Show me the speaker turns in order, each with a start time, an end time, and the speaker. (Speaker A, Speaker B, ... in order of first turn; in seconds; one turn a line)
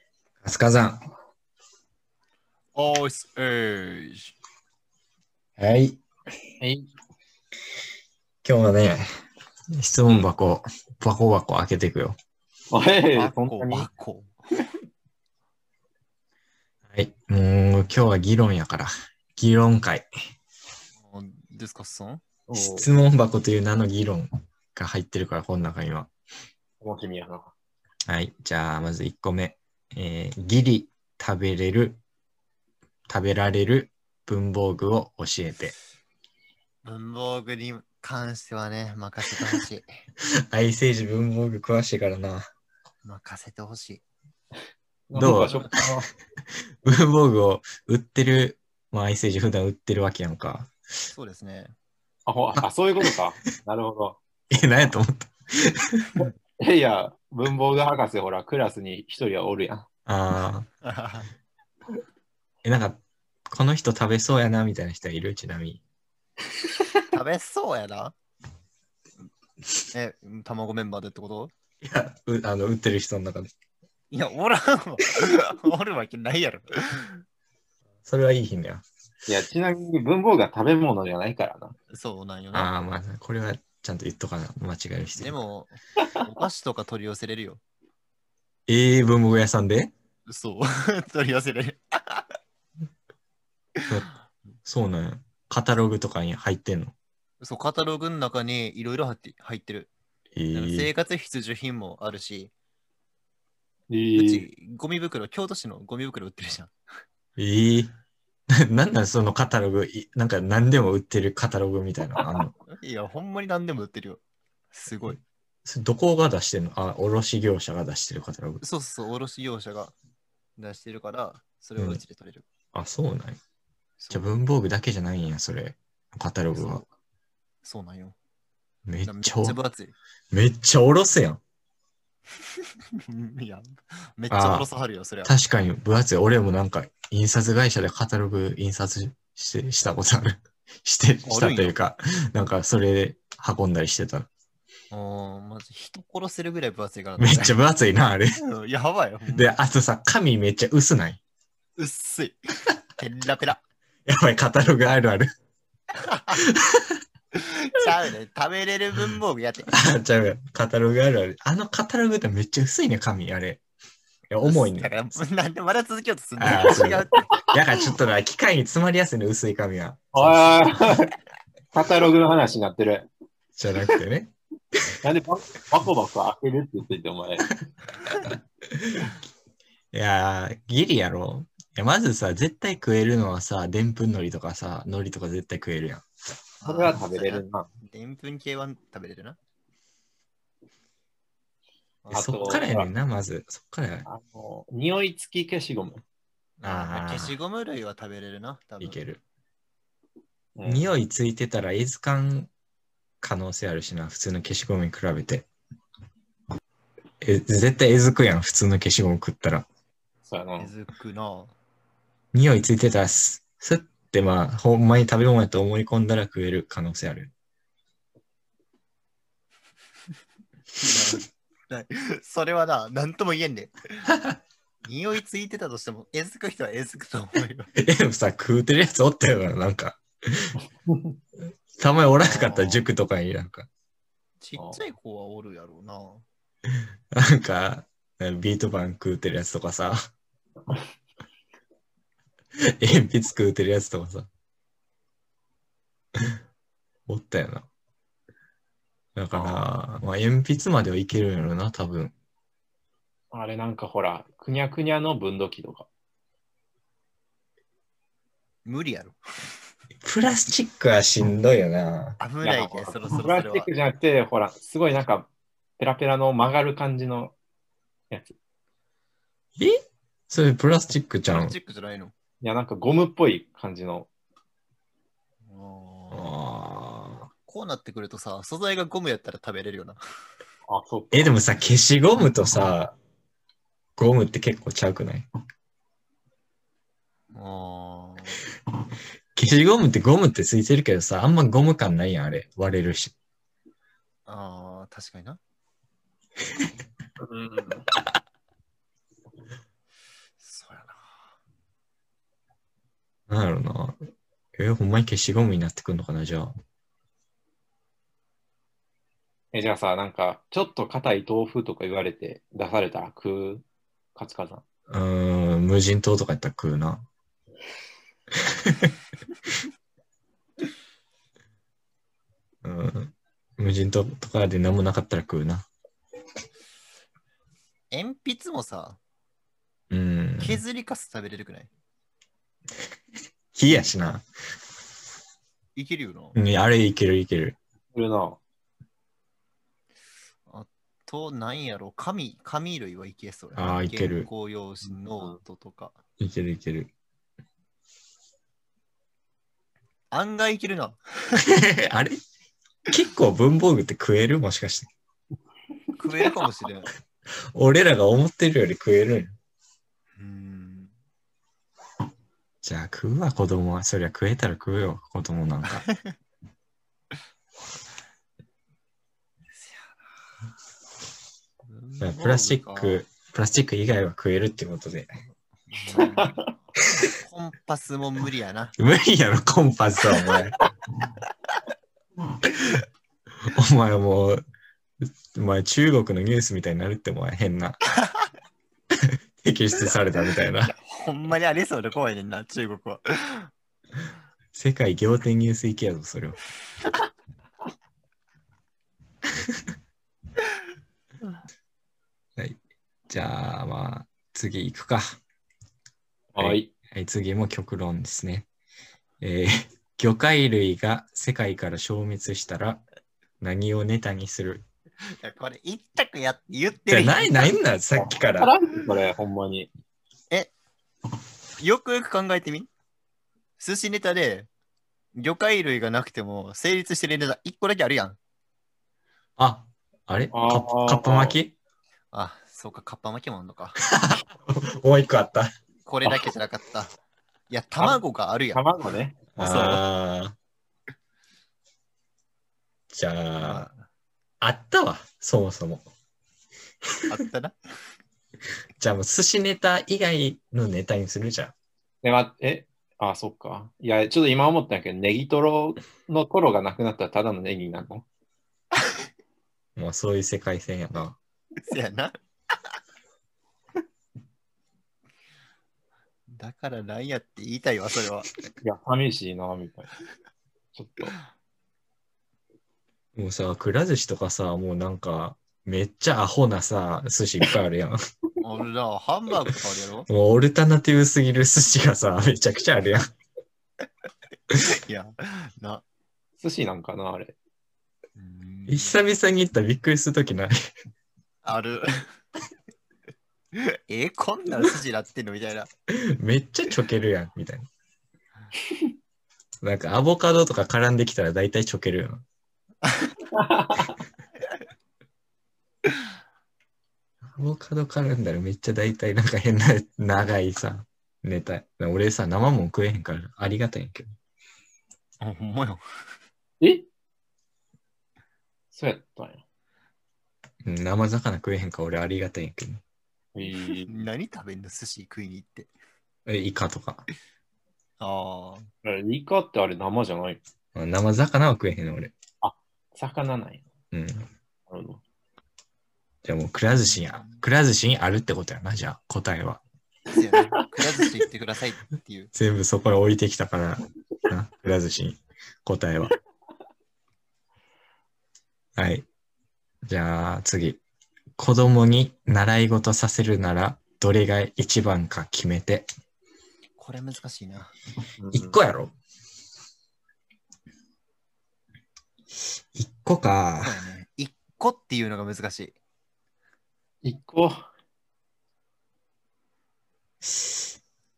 Speaker A: 0.4-1.0
Speaker B: 2.7-4.3
Speaker A: 5.6-6.0
Speaker C: 6.6-6.9
Speaker A: 8.4-9.0
Speaker A: 9.8-12.2
Speaker C: 12.7-13.9
Speaker B: 13.1-14.6
Speaker A: 16.9-20.1
Speaker B: 21.0-22.2
Speaker C: 22.5-22.9
Speaker A: 22.5-26.1
Speaker C: 26.8-27.5
Speaker A: 28.1-32.0
Speaker A: 33.1-35.7
Speaker B: 36.8-39.9
Speaker A: 40.5-42.4
Speaker B: 43.0-44.0
Speaker C: 45.1-46.1
Speaker A: 45.1-45.8
Speaker A: 46.8-50.7
Speaker B: 51.1-51.7
Speaker C: 52.2-54.2
Speaker A: 54.5-56.2
Speaker C: 56.6-59.9
Speaker A: 60.1-60.7
Speaker B: 60.8-61.3
Speaker A: 62.6-65.8
Speaker C: 66.7-67.0
Speaker B: 67.1-68.1
Speaker B: 69.9-71.5
Speaker A: 71.8-73.4
Speaker B: 74.1-77.2
Speaker A: 78.0-78.8
Speaker C: 79.3-81.8
Speaker B: 81.9-82.7
Speaker A: 82.5-85.4
Speaker B: 85.2-87.6
Speaker A: 88.7-89.9
Speaker B: 90.3-92.3
Speaker A: 94.6-97.0
Speaker B: 97.4-99.9
Speaker A: 100.3-100.9
Speaker B: 100.5-102.5
Speaker C: 103.9-104.5
Speaker B: 104.2-106.7
Speaker A: 107.4-107.9
Speaker A: 108.6-112.5
Speaker B: 112.7-115.2
Speaker A: 115.6-118.6
Speaker B: 118.6-119.9
Speaker B: 120.6-122.5
Speaker A: 122.7-123.4
Speaker B: 124.0-124.3
Speaker A: 124.1-126.8
Speaker B: 127.6-128.2
Speaker A: 128.9-129.6
Speaker B: 129.1-129.9
Speaker A: 130.3-131.4
Speaker B: 133.1-135.3
Speaker A: 134.3-134.7
Speaker A: 135.2-144.3
Speaker B: 141.3-141.8
Speaker B: 144.9-147.6
Speaker A: 147.2-148.4
Speaker B: 148.4-149.5
Speaker A: 149.3-151.2
Speaker B: 151.8-153.6
Speaker A: 154.1-155.3
Speaker B: 156.0-156.4
Speaker A: 156.3-157.0
Speaker B: 157.4-159.7
Speaker A: 159.7-163.6
Speaker A: 164.3-165.0
Speaker B: 164.4-167.2
Speaker A: 166.4-170.6
Speaker C: 170.1-171.1
Speaker C: 171.7-173.1
Speaker A: 173.6-174.3
Speaker C: 175.0-177.5
Speaker A: 178.8-179.2
Speaker A: 179.9-186.0
Speaker B: 186.6-189.4
Speaker C: 186.6-187.7
Speaker B: 192.0-192.7
Speaker C: 192.1-192.9
Speaker A: 192.1-194.1
Speaker C: 194.1-196.0
Speaker A: 196.6-197.3
Speaker B: 196.6-199.0
Speaker A: 198.8-199.2
Speaker C: 200.6-200.9
Speaker A: 200.6-202.5
Speaker A: 203.2-205.5
Speaker A: 207.2-209.7
Speaker C: 210.2-210.7
Speaker B: 210.6-211.5
Speaker A: 212.3-217.3
Speaker B: 220.8-224.1
Speaker B: 224.8-227.7
Speaker A: 227.8-230.6
Speaker C: 230.9-231.1
Speaker A: 231.8-233.7
Speaker B: 232.2-232.8
Speaker B: 234.4-236.2
Speaker A: 237.1-240.0
Speaker A: 242.8-244.3
Speaker A: 247.1-247.7
Speaker A: 249.2-252.1
Speaker C: 249.3-249.6
Speaker C: 253.3-255.9
Speaker B: 258.6-259.2
Speaker A: 260.0-262.2
Speaker B: 262.2-263.7
Speaker C: 262.4-267.3
Speaker A: 270.3-271.5
Speaker B: 271.3-272.1
Speaker C: 272.4-274.1
Speaker B: 275.5-276.4
Speaker A: 276.1-277.3
Speaker B: 277.5-280.0
Speaker C: 280.7-281.4
Speaker A: 281.1-282.9
Speaker A: 284.0-285.2
Speaker B: 287.3-288.4
Speaker A: 289.3-293.1
Speaker B: 294.2-295.4
Speaker C: 297.2-297.8
Speaker B: 300.4-301.3
Speaker A: 303.3-304.0
Speaker A: 304.6-306.5
Speaker C: 309.5-314.6
Speaker A: 314.9-317.1
Speaker A: 318.4-318.9
Speaker A: 322.6-325.7
Speaker B: 327.9-329.0
Speaker A: 329.9-330.6
Speaker B: 330.4-331.7
Speaker A: 333.5-334.2
Speaker B: 335.8-336.4
Speaker A: 336.3-337.6
Speaker C: 337.9-338.4
Speaker B: 340.5-346.0
Speaker A: 343.5-344.3
Speaker C: 344.9-345.4
Speaker A: 346.2-346.9
Speaker B: 350.1-351.4
Speaker A: 351.4-352.1
Speaker A: 352.9-354.9
Speaker B: 356.0-356.9
Speaker A: 357.5-359.4
Speaker B: 360.2-360.9
Speaker A: 362.6-365.9
Speaker B: 365.7-366.1
Speaker B: 369.5-370.0
Speaker B: 371.7-373.0
Speaker A: 372.0-375.1
Speaker B: 375.7-378.7
Speaker C: 375.9-376.5
Speaker A: 378.8-380.6
Speaker A: 383.4-384.4
Speaker A: 385.3-387.8
Speaker A: 389.4-390.7
Speaker B: 390.4-393.5
Speaker A: 394.5-396.4
Speaker A: 402.4-405.2
Speaker C: 406.3-406.7
Speaker A: 406.4-408.5
Speaker A: 409.2-412.8
Speaker A: 413.4-414.6
Speaker B: 415.2-417.5
Speaker A: 416.9-418.5
Speaker C: 418.0-419.7
Speaker B: 421.6-422.7
Speaker B: 423.6-424.5
Speaker B: 425.1-428.2
Speaker A: 429.4-431.6
Speaker C: 430.3-431.4
Speaker B: 432.1-433.8
Speaker A: 433.9-435.5
Speaker B: 435.8-436.9
Speaker B: 437.5-438.6
Speaker C: 438.5-439.8
Speaker A: 439.4-440.3
Speaker A: 442.9-443.7
Speaker B: 443.4-443.8
Speaker A: 444.4-445.9
Speaker B: 447.1-447.5
Speaker A: 448.8-451.5
Speaker C: 452.0-458.0
Speaker A: 459.8-461.2
Speaker B: 461.7-462.1
Speaker B: 466.3-468.3
Speaker C: 468.6-469.9
Speaker C: 470.7-471.1
Speaker A: 473.1-478.0
Speaker B: 478.4-480.1
Speaker A: 480.1-483.1
Speaker B: 484.6-485.8
Speaker C: 486.4-487.4
Speaker B: 488.2-489.0
Speaker A: 488.7-490.5
Speaker B: 491.4-491.9
Speaker B: 493.6-495.7
Speaker A: 495.9-497.7
Speaker A: 499.6-502.2
Speaker B: 502.8-503.1
Speaker C: 503.3-503.9
Speaker A: 507.4-514.1
Speaker B: 515.2-515.8
Speaker C: 516.6-516.9
Speaker C: 518.7-519.4
Speaker A: 520.6-522.8
Speaker C: 523.3-523.9
Speaker B: 523.5-525.7
Speaker A: 526.2-527.0
Speaker B: 528.0-528.7
Speaker C: 528.8-530.4
Speaker A: 530.7-532.1
Speaker C: 532.4-533.6
Speaker A: 533.9-534.3
Speaker C: 534.7-535.0
Speaker A: 536.2-539.6
Speaker B: 536.7-537.4
Speaker B: 540.1-542.3
Speaker A: 542.3-546.1
Speaker A: 548.8-549.1
Speaker A: 549.9-550.8
Speaker A: 551.4-555.9
Speaker B: 556.8-557.7
Speaker C: 558.2-558.6
Speaker A: 558.3-558.9
Speaker A: 562.7-563.8
Speaker B: 563.6-565.8
Speaker C: 567.0-567.7
Speaker A: 570.2-570.7